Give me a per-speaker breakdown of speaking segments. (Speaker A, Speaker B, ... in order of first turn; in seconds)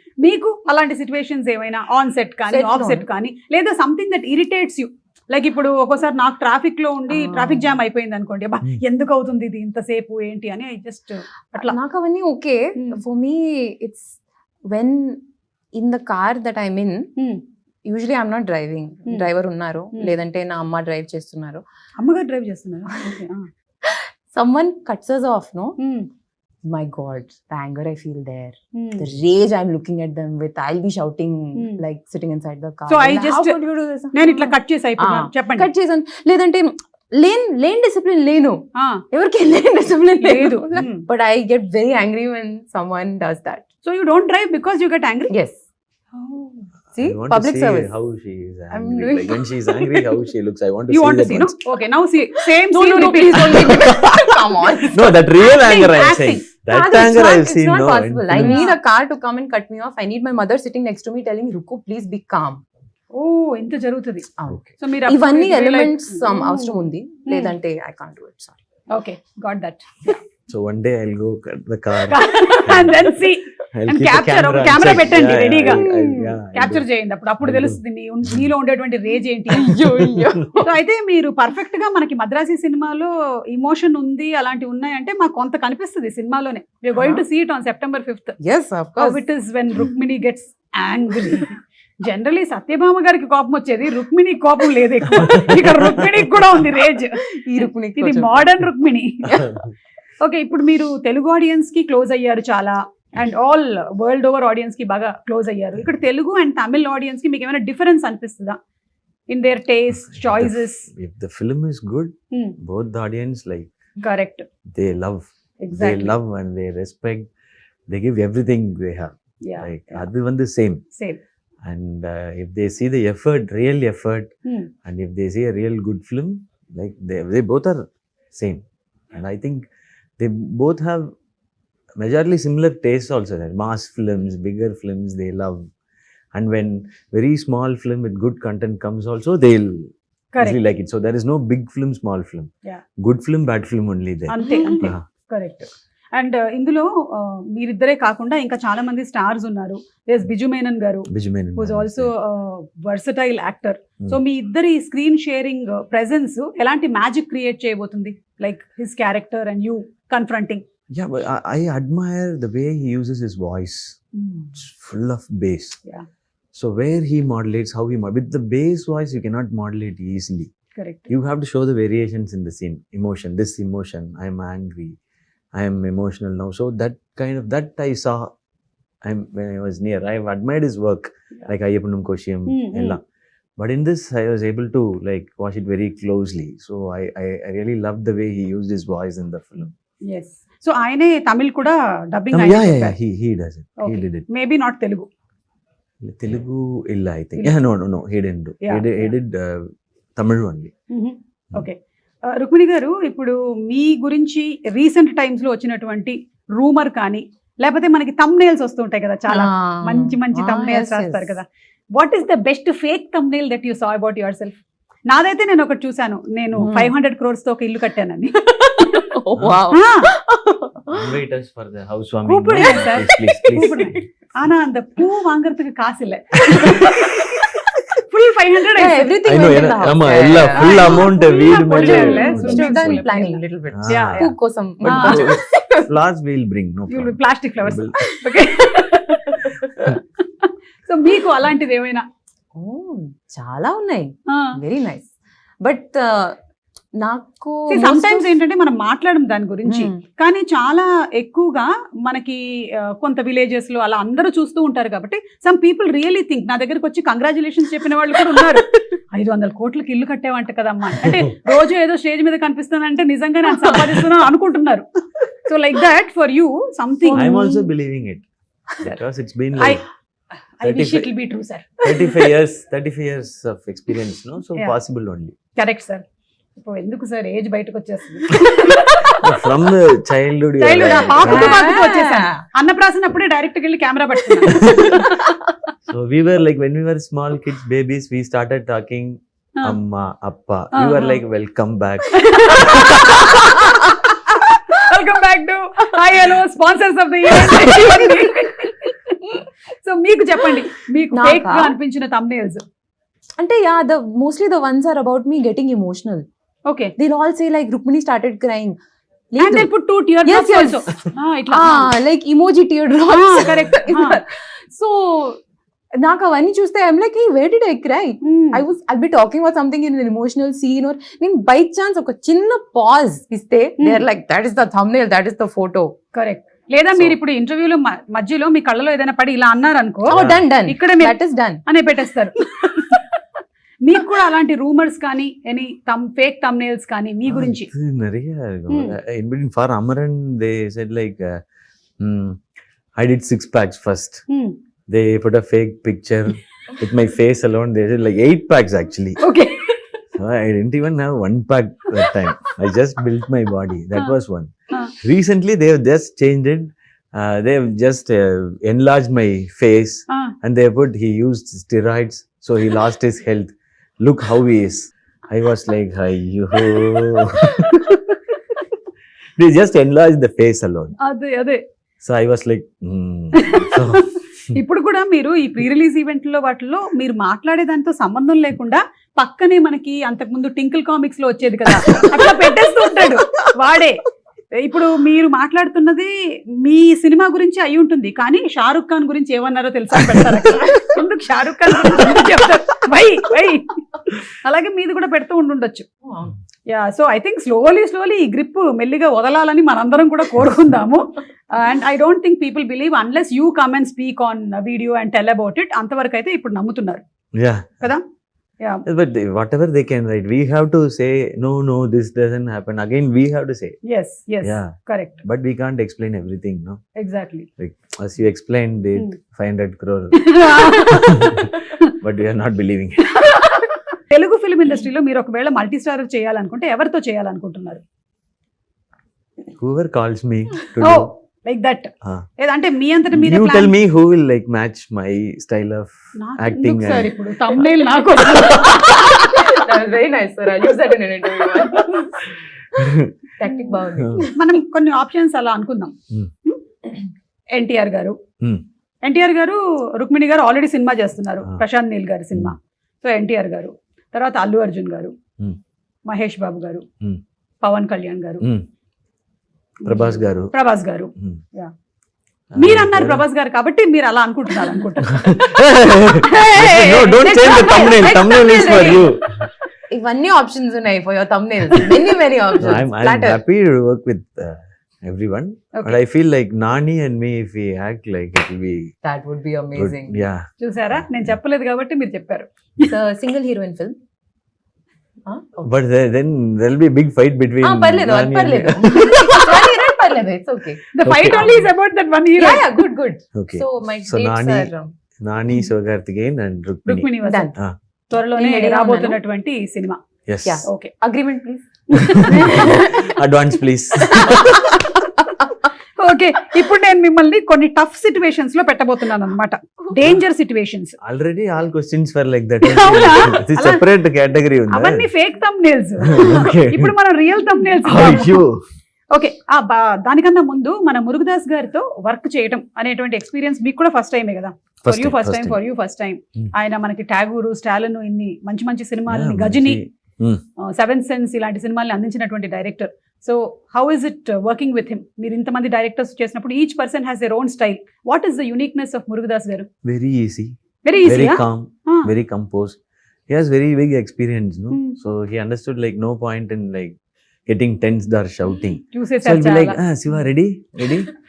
Speaker A: 0.2-11.8, 17.2-17.4, 22.0-23.5, 25.8-26.1, 28.7-29.1, 31.6-31.8, 32.9-33.5, 34.1-35.7, 38.8-39.0, 40.2-41.1, 43.8-45.3, 46.2-46.5, 50.9-53.8, 55.4-56.4, 58.3-58.8, 63.1-67.5, 68.9-70.2, 72.0-75.9, 76.5-79.8, 80.6-88.4, 89.0-97.3, 98.0-99.5, 100.2-108.6, 109.3-110.9, 114.0-114.5, 115.6-116.1, 119.4-120.0, 120.9-121.2, 144.3-160.6, 164.2-164.5, 170.8-171.1, 182.5-183.0, 190.1-192.9, 193.8-195.1, 198.6-199.1, 200.9-218.3, 219.7-220.1, 222.3-227.4, 228.0-229.2, 230.5-234.3, 234.8-235.2, 236.9-242.0, 244.3-244.6, 247.7-264.9, 265.4-267.4, 269.6-269.8, 270.6-272.1, 275.6-276.0, 276.6-279.1, 280.6-285.2, 290.7-291.2, 292.1-302.6, 306.7-306.9, 309.4-311.9, 313.1-314.2, 318.2-318.6, 323.8-324.0, 326.1-333.1, 333.8-337.7, 338.7-338.9, 344.3-344.6, 349.2-349.8, 371.0-371.6, 373.3-395.9, 396.7-407.0, 413.9-415.2, 417.0-417.5, 420.1-421.9, 423.1-427.8, 430.8-433.7, 436.2-439.2, 444.3-445.9, 447.5-448.2, 449.0-455.1, 456.1-456.8, 457.6-458.4, 459.8-461.7, 462.6-465.4, 466.2-467.8, 468.6-469.1, 480.6-482.9, 489.0-489.7, 490.9-492.7, 496.9-497.5, 498.1-500.0, 500.6-500.9, 502.0-502.8, 506.0-511.0, 512.6-513.8, 514.7-518.4, 519.1-529.8, 530.6-539.7, 540.8-542.1, 544.7-545.0, 548.8-549.8
Speaker B: 2.5-3.0, 7.1-7.7, 11.5-14.1, 14.7-15.2, 15.8-17.1, 17.8-21.6, 23.8-25.8, 26.7-43.6, 45.3-45.6, 46.9-47.9, 48.7-50.1, 52.6-55.2, 56.7-62.6, 64.4-68.6, 75.7-76.3, 79.5-80.8, 86.9-87.2, 88.4-89.2, 95.2-95.9, 97.2-98.5, 99.2-99.5, 144.4-144.9, 209.3-211.4, 216.5-216.9, 218.4-221.1, 222.5-224.0, 227.2-227.6, 228.7-235.9, 238.9-239.5, 242.6-246.4, 247.0-248.3, 249.7-250.0, 263.5-264.1, 267.0-267.7, 281.1-282.4, 292.6-293.7, 297.6-298.2, 301.1-301.8, 303.4-306.2, 307.0-308.8, 309.3-309.7, 310.2-310.8, 311.5-315.4, 316.0-325.9, 330.1-331.6, 381.9-382.4, 396.0-396.4, 438.5-442.3, 443.4-444.5, 467.1-469.2, 469.9-473.4, 479.0-480.2, 482.9-483.9, 485.2-485.7, 487.6-490.8, 492.3-494.9, 497.2-497.5, 498.2-499.2, 500.4-503.1, 504.0-504.9
Speaker C: 46.9-51.5, 53.6-58.6, 70.5-76.9, 77.4-78.5, 80.0-80.2, 95.4-95.9, 110.0-113.7, 114.7-117.3, 117.9-120.8, 121.6-129.7, 130.2-131.1, 132.0-135.7, 136.3-142.5, 143.0-145.0, 151.1-152.1, 160.9-164.0, 164.5-165.8, 166.5-170.5, 171.1-174.9, 175.5-178.3, 179.0-183.0, 183.6-189.7, 192.3-194.2, 196.0-200.7, 219.3-219.7, 220.9-223.9, 226.5-226.9, 229.2-233.1, 233.7-238.1, 267.1-268.2, 268.8-269.8, 270.6-271.1, 271.8-275.4, 279.1-281.7, 284.5-285.1, 285.9-293.2, 330.1-330.5, 337.3-341.4, 342.0-342.4, 343.0-344.2, 344.9-349.2, 350.1-368.2, 369.4-370.9, 372.0-374.6, 407.3-407.9, 408.9-413.8, 414.4-416.8, 417.6-423.2, 429.5-431.1, 433.1-437.6, 438.3-438.9, 442.7-443.1, 443.9-444.3, 459.8-460.5, 462.5-463.2, 465.0-469.5, 472.6-478.9, 479.7-481.3, 485.6-489.1, 491.0-491.7, 493.3-497.8, 500.2-500.6, 502.0-504.8, 511.0-515.1, 516.0-516.9, 517.8-518.6, 524.8-525.6, 529.1-530.4, 539.8-542.8, 543.3-546.9, 547.5-551.1